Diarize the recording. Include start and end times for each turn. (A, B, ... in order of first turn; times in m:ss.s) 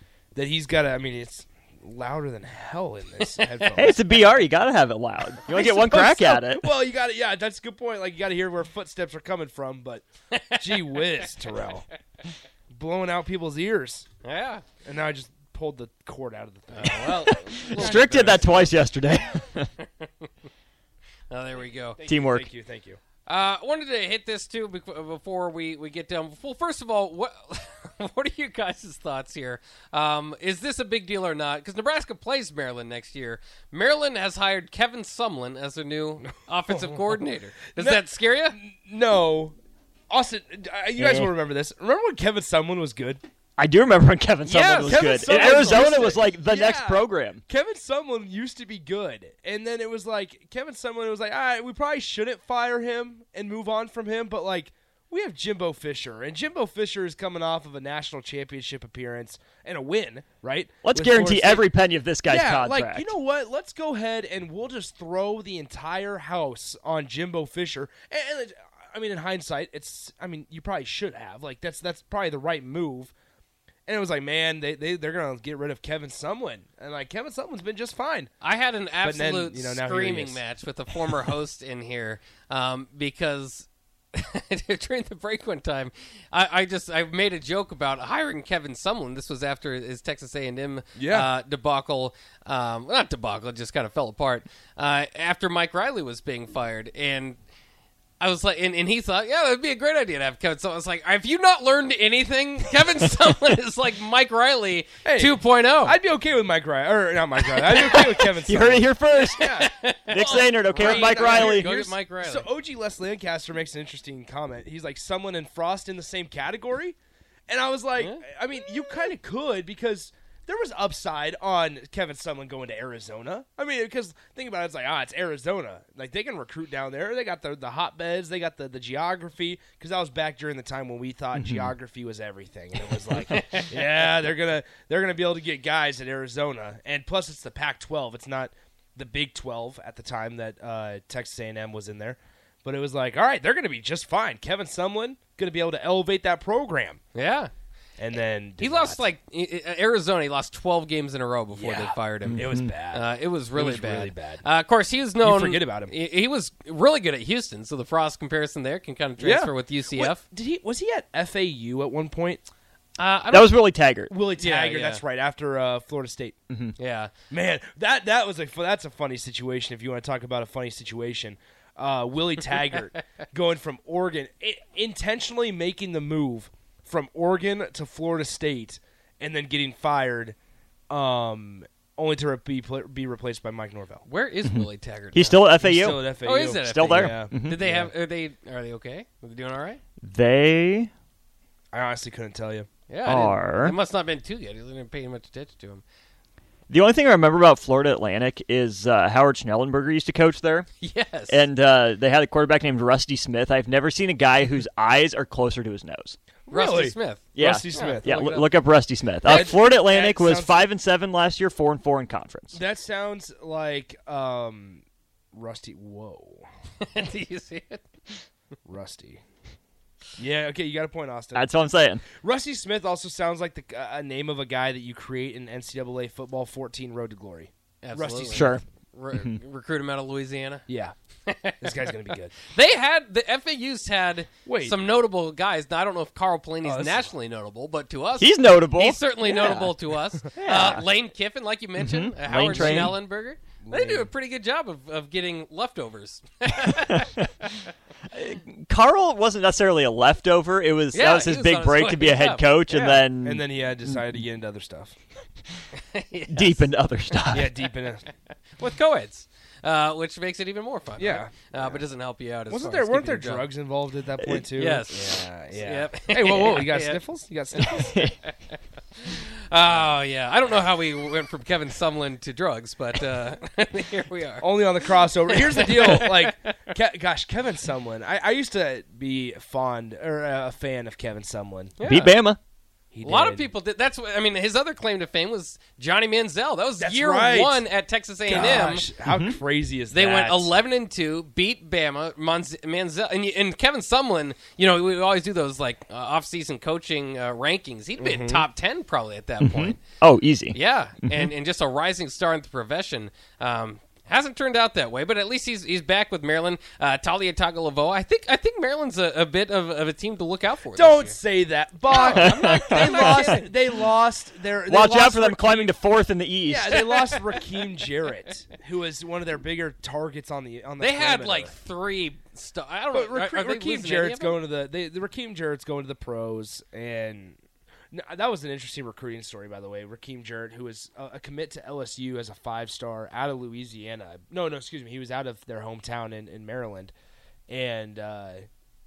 0:00.3-0:04.0 A
0:03.7-0:06.7 B
0:05.4-0:11.8 A
0:10.3-0:10.6 C
0:12.7-0:14.0 A
0:14.2-0:14.6 C
0:14.8-0:18.7 A
0:16.7-0:18.7 C
0:17.6-0:19.7 B
0:20.0-0:20.3 C
0:21.3-0:22.0 C
0:22.0-0:23.0 A
0:22.1-0:22.5 B
0:23.2-0:38.6 C
0:36.7-0:37.0 A
0:37.7-0:39.6 A
0:40.1-0:43.2 A
0:41.0-0:41.3 B
0:43.6-0:47.4 B
0:44.4-0:46.1 C
0:44.8-1:01.7 A
1:00.8-1:03.1 B
1:02.2-1:13.1 A
1:13.9-1:18.3 A
1:18.4-1:37.4 C
1:19.0-1:20.4 A
1:31.0-1:31.3 A
1:38.2-1:46.0 C
1:45.0-1:57.0 A
1:48.4-1:51.7 B
1:49.2-1:52.5 C
1:57.5-2:27.0 A
1:58.0-1:58.2 C
2:11.3-2:11.7 B
2:13.1-2:13.7 C
2:27.1-2:27.5 C
2:28.0-2:29.1 A
2:28.6-2:40.2 C
2:31.5-2:34.4 A
2:32.2-2:32.7 B
2:35.2-2:35.9 A
2:39.2-2:42.4 A
2:43.0-2:43.6 C
2:43.3-2:44.1 B
2:44.1-2:46.4 A
2:44.4-2:45.0 C
2:46.5-2:46.8 B
2:46.8-2:47.1 C
2:47.3-3:00.4 A
3:00.9-3:04.0 A
3:04.0-3:05.4 C
3:04.4-3:07.6 B
3:05.6-3:07.9 A
3:06.2-3:09.8 C
3:10.0-3:10.9 B
3:11.7-3:12.7 A
3:12.9-3:15.8 C
3:13.0-3:13.8 B
3:16.7-3:20.7 B
3:20.8-3:21.4 C
3:21.3-3:26.2 B
3:26.4-3:28.4 A
3:26.5-3:28.5 C
3:27.3-3:32.6 B
3:29.2-3:30.6 A
3:32.5-3:34.8 A
3:35.3-3:36.4 A
3:36.8-3:37.8 C
3:38.6-3:39.2 A
3:40.2-3:41.6 A
3:41.3-3:42.0 B
3:42.1-3:48.6 A
3:47.8-3:50.6 C
3:48.3-3:49.4 B
3:50.7-3:50.9 A
3:51.2-3:51.7 C
3:51.6-3:52.3 A
3:52.5-4:07.1 C
3:54.4-3:54.8 A
3:56.6-3:57.1 A
3:58.2-3:59.7 B
4:00.4-4:00.8 B
4:01.8-4:03.0 B
4:02.3-4:03.0 A
4:03.6-4:04.1 A
4:06.8-4:07.3 B
4:08.1-4:14.2 B
4:10.9-4:13.0 C
4:13.2-4:14.9 A
4:15.7-4:16.7 C
4:16.3-4:17.5 B
4:17.3-4:18.0 A
4:18.6-4:23.5 C
4:21.0-4:21.8 A
4:22.5-4:28.0 A
4:24.5-4:27.0 C
4:27.9-4:28.1 B
4:28.3-4:34.5 C
4:34.4-4:41.9 A
4:35.3-4:36.5 C
4:41.8-4:42.1 C
4:41.8-4:42.4 B
4:42.9-4:43.5 A
4:43.0-4:48.8 C
4:46.8-4:47.6 A
4:48.2-4:50.5 A
4:49.0-4:49.4 B
4:49.9-4:59.8 C
4:58.0-4:58.4 A
4:59.4-5:01.3 B
5:00.5-5:11.2 C
5:10.7-5:15.8 A
5:11.8-5:13.6 C
5:12.1-5:13.4 B
5:14.7-5:17.1 B
5:16.4-5:21.5 A
5:20.8-5:24.4 C
5:22.9-5:27.4 A
5:27.9-5:36.9 A
5:37.5-5:38.5 A